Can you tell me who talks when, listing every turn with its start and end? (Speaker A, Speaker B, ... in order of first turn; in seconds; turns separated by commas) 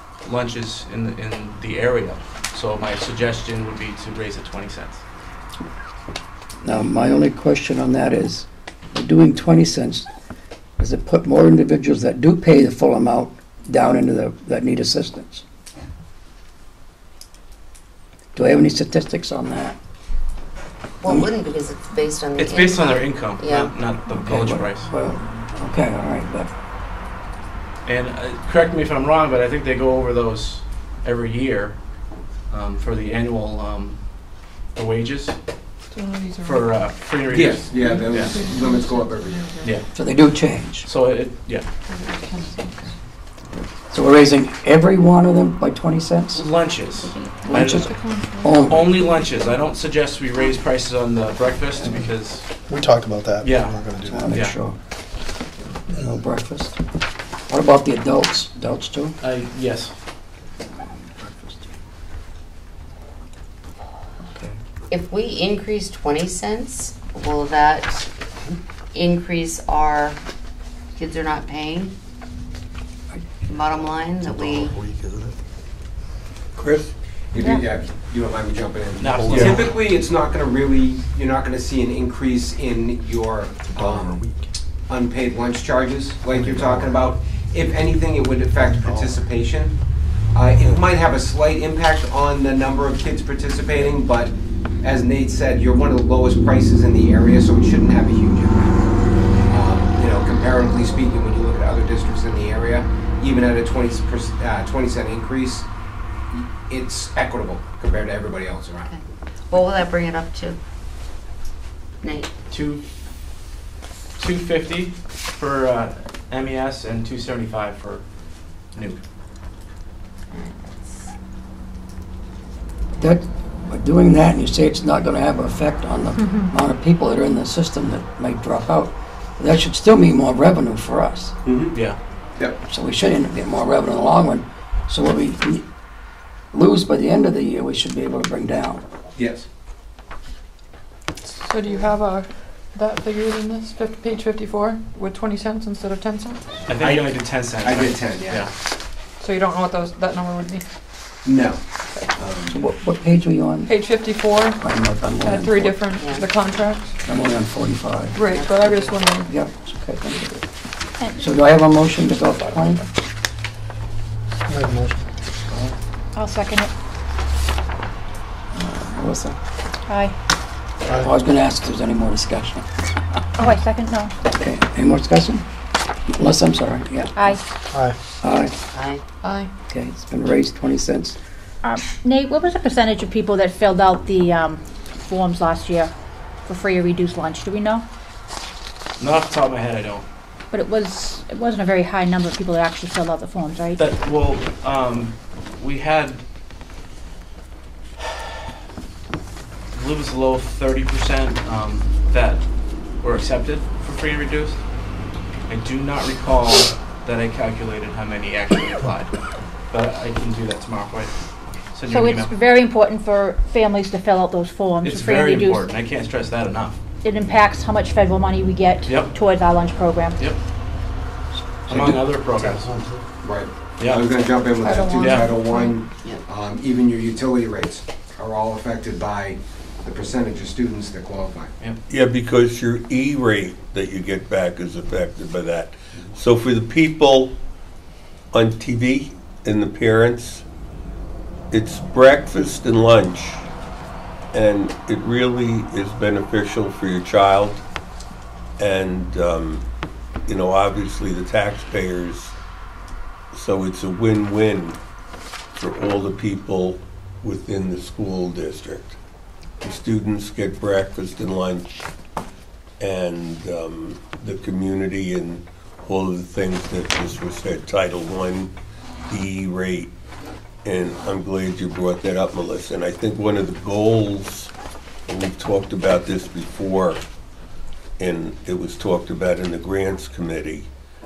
Speaker A: 0.2-5.0, Speaker B: 6.6-10.1, Speaker B: 10.8-15.4, Speaker B: 18.3-19.8, Speaker C: 21.0-23.7, Speaker B: 21.0-21.3, Speaker A: 22.4-24.9, Speaker B: 24.2-26.5, Speaker A: 27.8-31.8, Speaker A: 32.5-34.0, Speaker A: 34.7-35.4, Speaker D: 35.9-36.8, Speaker A: 36.4-38.4, Speaker E: 37.3-39.5, Speaker D: 37.7-39.7, Speaker B: 39.9-40.9, Speaker A: 40.8-41.6, Speaker D: 41.9-42.9, Speaker B: 43.9-46.4, Speaker A: 46.3-47.9, Speaker B: 47.5-48.9, Speaker D: 47.7-48.6, Speaker A: 48.7-52.5, Speaker F: 52.7-54.3, Speaker A: 53.4-54.6, Speaker B: 54.0-54.8, Speaker B: 55.9-56.8, Speaker B: 57.5-59.2, Speaker A: 59.2-59.9, Speaker C: 64.9-68.0, Speaker C: 68.9-70.2, Speaker C: 70.9-71.9, Speaker C: 73.5-74.8, Speaker F: 74.2-75.3, Speaker G: 76.5-76.9, Speaker E: 77.3-84.2, Speaker A: 79.0-79.7, Speaker F: 79.1-79.7, Speaker F: 83.7-84.5, Speaker E: 84.9-89.7, Speaker F: 86.3-87.1, Speaker F: 88.8-89.2, Speaker E: 90.3-98.8, Speaker E: 99.5-105.7, Speaker E: 106.7-108.9, Speaker C: 108.8-110.6, Speaker C: 112.0-112.3, Speaker A: 112.5-112.8, Speaker A: 114.2-118.0, Speaker A: 118.7-119.0, Speaker C: 120.3-120.9, Speaker B: 123.0-131.3, Speaker H: 126.2-126.5, Speaker E: 131.4-131.8, Speaker B: 132.7-135.6, Speaker B: 136.5-138.8, Speaker E: 139.2-139.4, Speaker D: 141.2-146.4, Speaker A: 146.7-148.5, Speaker E: 146.8-147.1, Speaker E: 147.6-148.5, Speaker D: 149.2-150.6, Speaker E: 151.2-151.6, Speaker E: 152.2-152.6, Speaker B: 152.4-153.7, Speaker D: 153.7-154.6, Speaker B: 154.5-155.8, Speaker D: 155.2-156.9, Speaker C: 156.0-156.3, Speaker B: 157.1-158.2, Speaker D: 158.1-159.3, Speaker C: 158.2-159.0, Speaker B: 159.2-160.4, Speaker H: 161.0-161.2, Speaker B: 161.2-162.9, Speaker F: 164.5-165.0, Speaker H: 166.1-166.7, Speaker B: 168.5-169.4, Speaker H: 169.9-170.1, Speaker B: 170.9-172.6, Speaker H: 173.4-174.1, Speaker B: 174.3-175.4, Speaker B: 176.1-177.4, Speaker H: 177.2-177.4, Speaker B: 178.2-178.5, Speaker C: 178.7-179.0, Speaker D: 179.2-179.5, Speaker B: 179.7-181.2, Speaker H: 181.6-185.9, Speaker H: 186.4-187.8, Speaker A: 189.0-190.1, Speaker H: 190.5-193.9, Speaker A: 193.8-196.2, Speaker A: 199.7-202.4, Speaker A: 203.0-204.6, Speaker A: 205.5-209.1, Speaker A: 209.7-211.1, Speaker A: 211.7-212.3, Speaker H: 211.9-215.7, Speaker A: 214.8-216.8, Speaker H: 217.0-220.3, Speaker A: 218.9-219.1, Speaker A: 221.7-222.7, Speaker F: 222.4-223.0, Speaker E: 223.2-231.5, Speaker A: 223.8-224.2, Speaker D: 224.6-225.7, Speaker A: 225.0-225.3, Speaker G: 231.9-237.3, Speaker G: 238.3-240.4, Speaker G: 241.5-243.4, Speaker G: 244.3-247.6, Speaker G: 248.6-249.6, Speaker G: 250.3-252.3, Speaker G: 253.3-254.8, Speaker G: 255.6-258.9, Speaker G: 259.6-261.7, Speaker G: 262.8-268.5, Speaker G: 269.1-269.9, Speaker G: 270.6-274.5, Speaker G: 275.1-277.0, Speaker G: 278.0-280.7